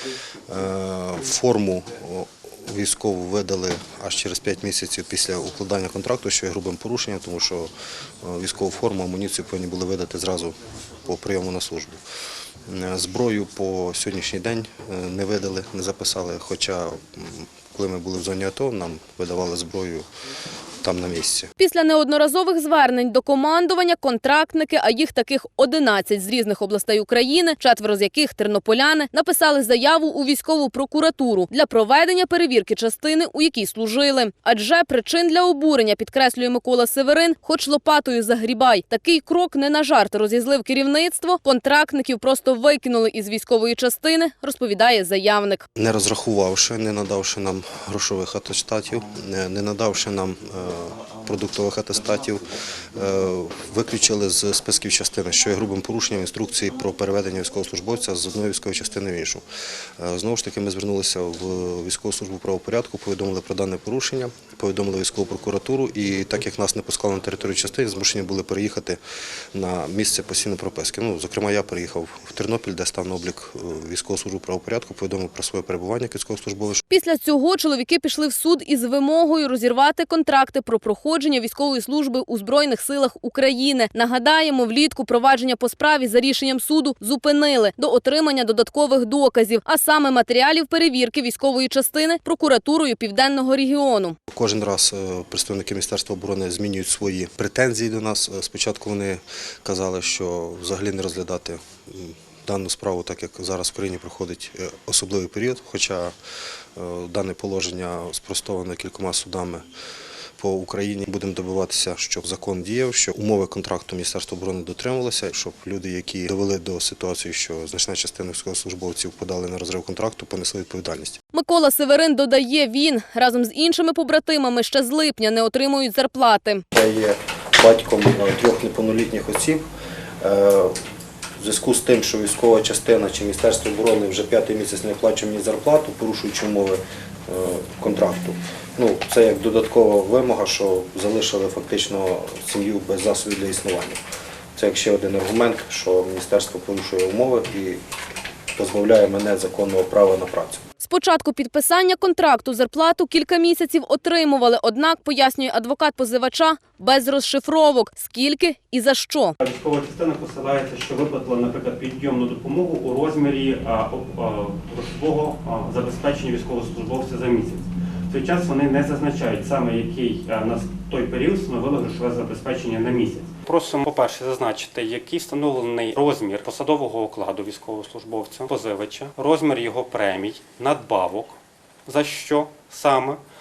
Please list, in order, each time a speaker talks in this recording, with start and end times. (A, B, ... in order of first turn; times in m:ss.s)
0:00.5-0:12.0 A
0:12.7-0:20.1 A
0:20.8-0:21.5 A
0:21.6-0:45.7 B
0:45.8-0:59.4 A
1:00.0-1:09.0 A
1:09.5-1:16.8 A
1:16.9-1:34.2 B
1:34.3-1:46.1 A
1:46.8-1:49.7 A
1:50.4-2:01.2 A
2:01.3-2:06.6 B
2:06.7-2:09.6 A
2:10.2-2:10.8 A
2:11.4-2:24.0 A
2:24.6-2:27.8 A
2:28.5-2:30.6 A
2:30.8-2:39.4 B
2:39.4-3:03.2 C